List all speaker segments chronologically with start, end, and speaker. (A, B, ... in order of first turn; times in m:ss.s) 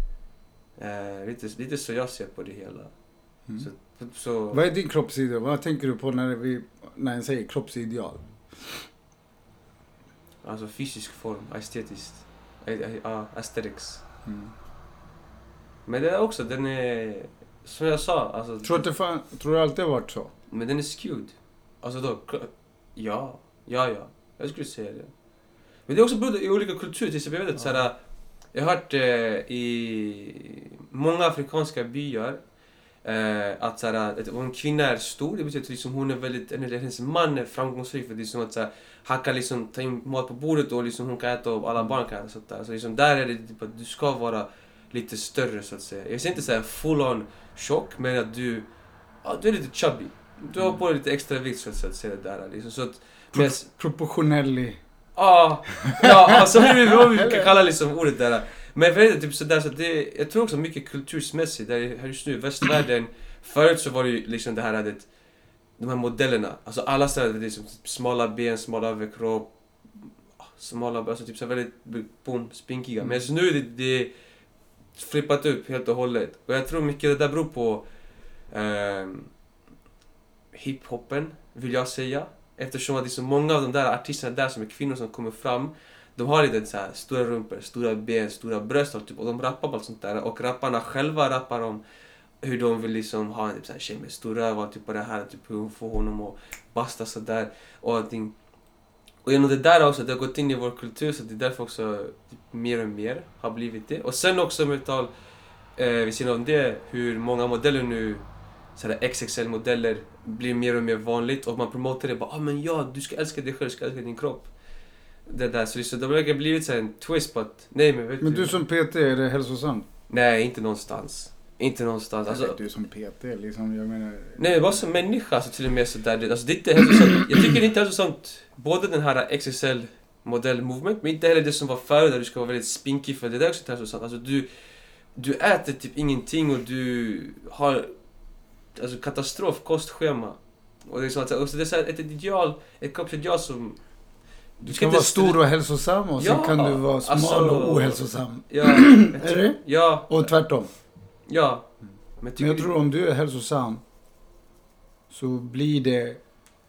0:00.8-0:04.6 A
0:04.5-0:08.9 B
0:10.4-0:14.0 A
0:14.2-0:14.5 B
0:15.8-0:18.9 A
0:18.6-0:20.3 B
0:20.5-0:25.1 A
0:25.9-0:48.7 A
0:27.6-0:27.9 B
0:49.2-0:53.7 A
0:53.3-0:54.8 B
0:55.2-1:05.1 A
0:55.9-0:57.5 B
1:05.8-1:14.1 A
1:14.9-1:17.9 A
1:18.5-1:19.3 A
1:20.5-1:31.8 A
1:32.4-1:38.4 A
1:39.2-1:45.1 A
1:45.8-1:54.5 A
1:55.3-1:58.6 A
1:58.2-1:59.9 B
2:00.1-2:02.6 A
2:02.3-2:04.5 B
2:04.4-2:14.5 A
2:15.1-2:17.9 A
2:18.8-2:23.8 A
2:24.6-2:25.4 A
2:24.6-2:30.7 B
2:26.2-2:30.3 A
2:31.3-2:31.7 A
2:32.2-2:32.7 A
2:32.4-2:33.8 B
2:35.1-2:36.2 B